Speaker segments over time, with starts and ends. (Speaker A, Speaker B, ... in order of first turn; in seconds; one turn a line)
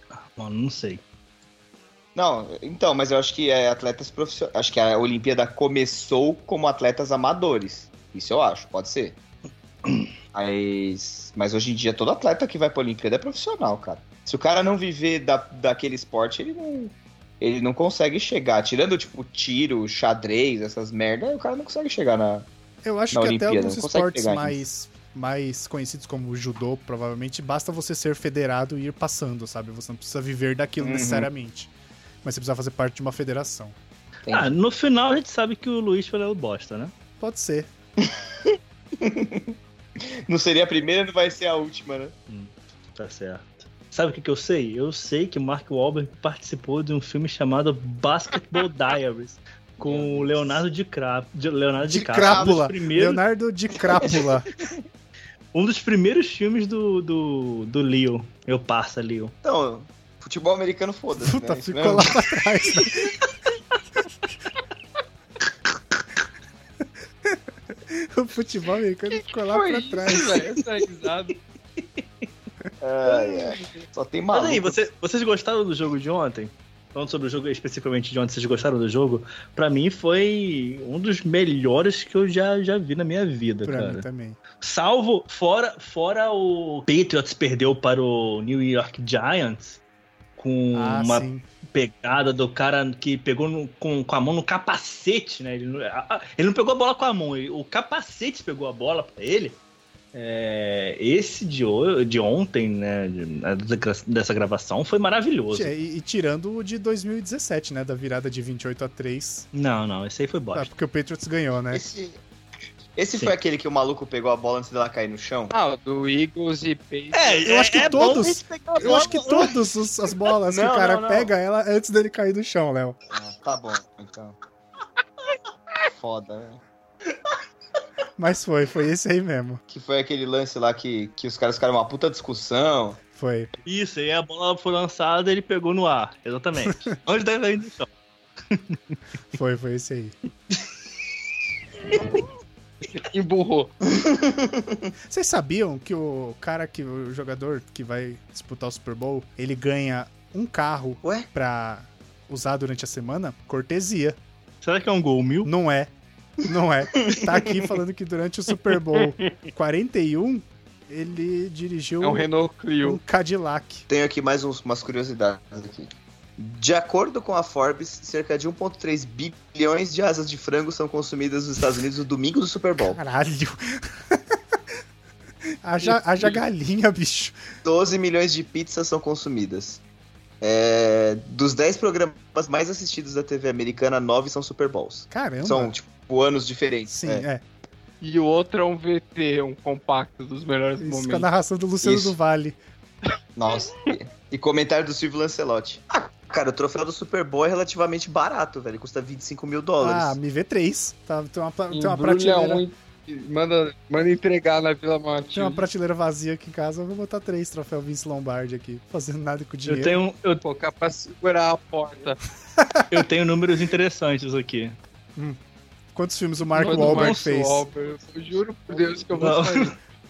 Speaker A: 0.3-1.0
Speaker B: 2.1-9.2
Speaker A: 9.8-10.1
Speaker B: 10.3-22.5
Speaker C: 22.8-31.7
Speaker B: 23.1-24.6
Speaker B: 30.8-31.3
Speaker C: 32.2-33.8
Speaker B: 34.3-34.5
Speaker A: 34.3-36.9
Speaker C: 37.2-37.7
Speaker B: 38.0-42.1
Speaker A: 42.3-53.2
Speaker B: 49.8-50.6
Speaker B: 51.9-52.6
Speaker C: 51.9-54.5
Speaker B: 54.0-54.8
Speaker A: 55.5-59.3
Speaker B: 59.4-62.2
Speaker C: 61.2-63.1
Speaker C: 67.3-70.4
Speaker D: 69.2-71.4
Speaker A: 71.8-72.3
Speaker B: 72.8-74.8
Speaker A: 73.0-73.5
Speaker A: 74.3-89.8
Speaker C: 83.7-84.4
Speaker A: 90.4-99.6
Speaker C: 90.7-91.5
Speaker A: 100.1-105.7
Speaker C: 105.5-109.5
Speaker A: 109.5-110.7
Speaker C: 110.5-111.8
Speaker B: 111.7-112.2
Speaker B: 113.0-115.5
Speaker D: 115.5-118.2
Speaker A: 117.2-119.7
Speaker C: 117.5-123.0
Speaker B: 118.8-119.5
Speaker B: 120.5-121.3
Speaker B: 123.1-124.4
Speaker B: 125.9-126.6
Speaker C: 128.2-129.6
Speaker B: 129.7-133.0
Speaker C: 133.1-133.5
Speaker A: 133.6-137.9
Speaker C: 136.7-136.9
Speaker A: 138.5-138.9
Speaker C: 139.3-140.2
Speaker D: 142.8-143.7
Speaker B: 143.9-144.8
Speaker C: 145.1-154.2
Speaker A: 154.6-155.5
Speaker C: 155.4-155.9
Speaker C: 156.4-162.3
Speaker B: 156.9-157.5
Speaker D: 158.7-159.3
Speaker D: 162.0-163.0
Speaker C: 162.8-163.9
Speaker B: 163.9-173.0
Speaker C: 172.9-174.4
Speaker C: 175.6-177.4
Speaker B: 177.7-179.8
Speaker B: 180.4-187.3
Speaker C: 185.1-185.7
Speaker C: 186.9-187.4
Speaker D: 188.0-191.3
Speaker C: 190.8-192.6
Speaker B: 191.8-192.2
Speaker B: 193.4-200.2
Speaker D: 193.5-193.9
Speaker C: 199.8-202.6
Speaker D: 201.7-205.7
Speaker C: 205.3-210.0
Speaker A: 209.7-210.4
Speaker D: 210.4-212.2
Speaker C: 212.6-213.0
Speaker A: 212.9-214.8
Speaker C: 215.9-217.7
Speaker A: 216.6-217.3
Speaker D: 216.6-219.8
Speaker A: 219.1-219.8